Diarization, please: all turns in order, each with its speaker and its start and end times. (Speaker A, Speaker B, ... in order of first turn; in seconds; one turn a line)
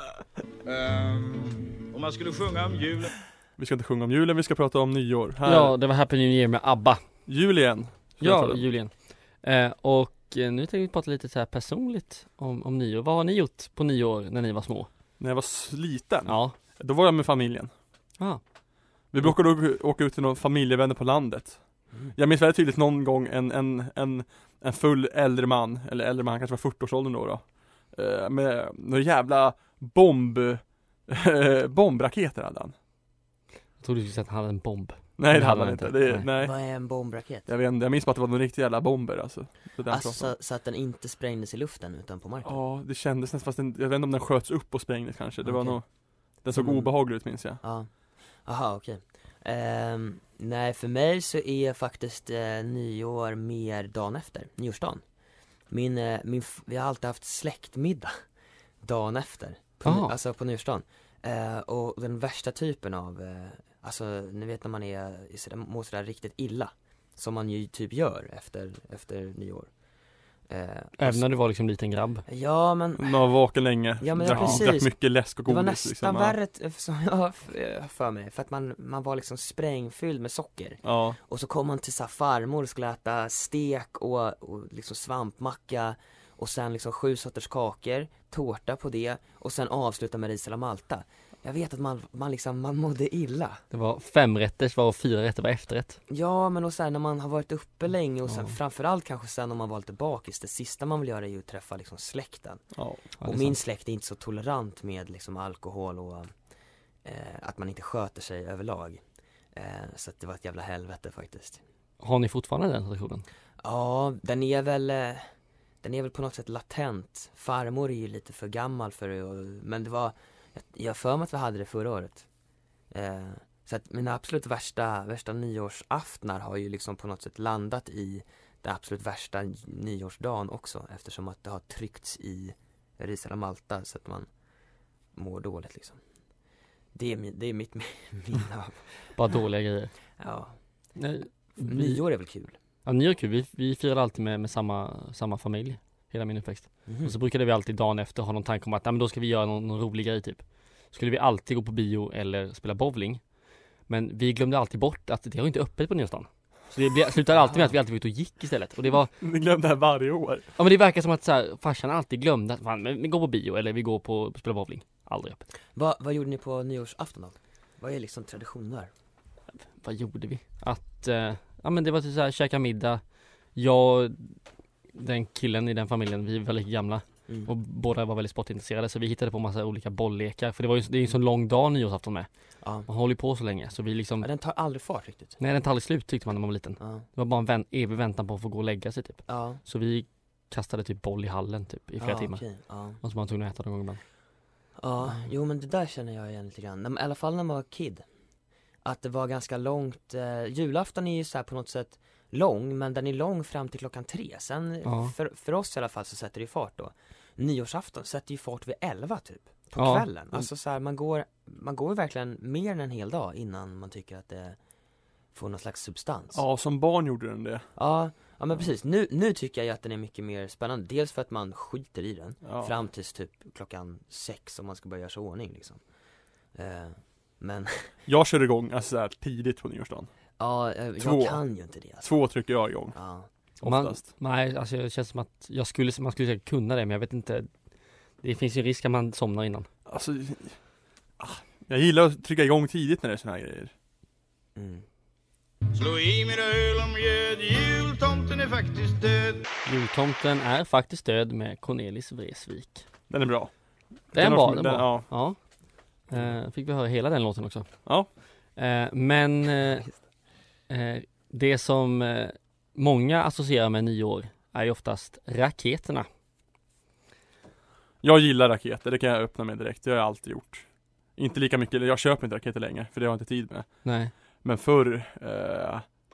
Speaker A: 0.6-3.1
Speaker B: 3.6-5.7
Speaker C: 5.4-7.0
Speaker B: 7.3-8.6
Speaker C: 8.2-14.9
Speaker B: 15.2-17.7
Speaker C: 16.3-16.5
Speaker B: 19.1-32.7
Speaker C: 33.8-36.2
Speaker B: 35.2-36.5
Speaker D: 36.4-37.5
Speaker B: 37.5-40.3
Speaker D: 39.9-42.6
Speaker B: 42.4-47.6
Speaker D: 45.4-45.8
Speaker D: 46.3-46.9
Speaker D: 47.6-47.9
Speaker D: 48.4-55.0
Speaker D: 55.7-58.1
Speaker D: 58.8-69.7
Speaker C: 59.8-60.1
Speaker D: 70.5-71.2
Speaker C: 71.0-72.2
Speaker D: 72.2-73.2
Speaker B: 73.0-76.3
Speaker D: 74.0-93.6
Speaker C: 74.3-74.6
Speaker B: 80.8-81.2
Speaker C: 93.7-96.0
Speaker D: 96.1-102.6
Speaker B: 102.7-103.0
Speaker C: 103.2-103.6
Speaker D: 103.2-106.3
Speaker D: 107.0-109.0
Speaker D: 109.5-111.6
Speaker C: 112.0-113.2
Speaker D: 113.6-115.3
Speaker D: 115.8-122.2
Speaker D: 122.9-134.3
Speaker D: 135.1-136.0
Speaker D: 136.9-138.8
Speaker C: 139.1-139.9
Speaker D: 140.2-140.5
Speaker C: 141.0-142.0
Speaker D: 141.6-142.5
Speaker C: 142.8-153.2
Speaker D: 146.9-147.1
Speaker C: 153.9-159.1
Speaker D: 157.4-157.7
Speaker B: 159.2-160.5
Speaker C: 160.6-165.4
Speaker D: 165.7-168.9
Speaker C: 169.6-173.0
Speaker C: 173.5-174.4
Speaker C: 174.9-182.3
Speaker D: 182.6-182.9
Speaker C: 182.9-184.3
Speaker D: 184.2-185.3
Speaker C: 185.4-192.4
Speaker D: 186.8-187.1
Speaker D: 189.3-189.6
Speaker D: 192.0-193.0
Speaker C: 193.0-194.0
Speaker D: 194.8-198.0
Speaker D: 198.8-214.6
Speaker C: 204.8-205.1
Speaker C: 209.8-210.1
Speaker D: 215.3-216.4
Speaker B: 216.3-217.7
Speaker D: 217.8-225.8
Speaker B: 222.4-222.7
Speaker D: 226.5-227.9
Speaker B: 228.1-230.1
Speaker D: 230.4-232.1
Speaker B: 231.0-231.4
Speaker B: 232.0-232.9
Speaker D: 232.9-233.3
Speaker B: 233.6-234.0
Speaker C: 233.6-237.5
Speaker C: 238.2-239.7
Speaker B: 239.9-240.6
Speaker B: 241.2-243.7
Speaker D: 244.6-244.8
Speaker A: 245.7-249.4
Speaker C: 249.7-252.8
Speaker B: 253.1-253.5
Speaker B: 254.1-255.1
Speaker C: 254.1-255.4
Speaker C: 256.1-257.7
Speaker C: 258.6-259.9
Speaker D: 259.6-259.9
Speaker C: 260.7-266.1
Speaker B: 268.0-273.8
Speaker C: 273.8-274.1
Speaker B: 274.4-275.9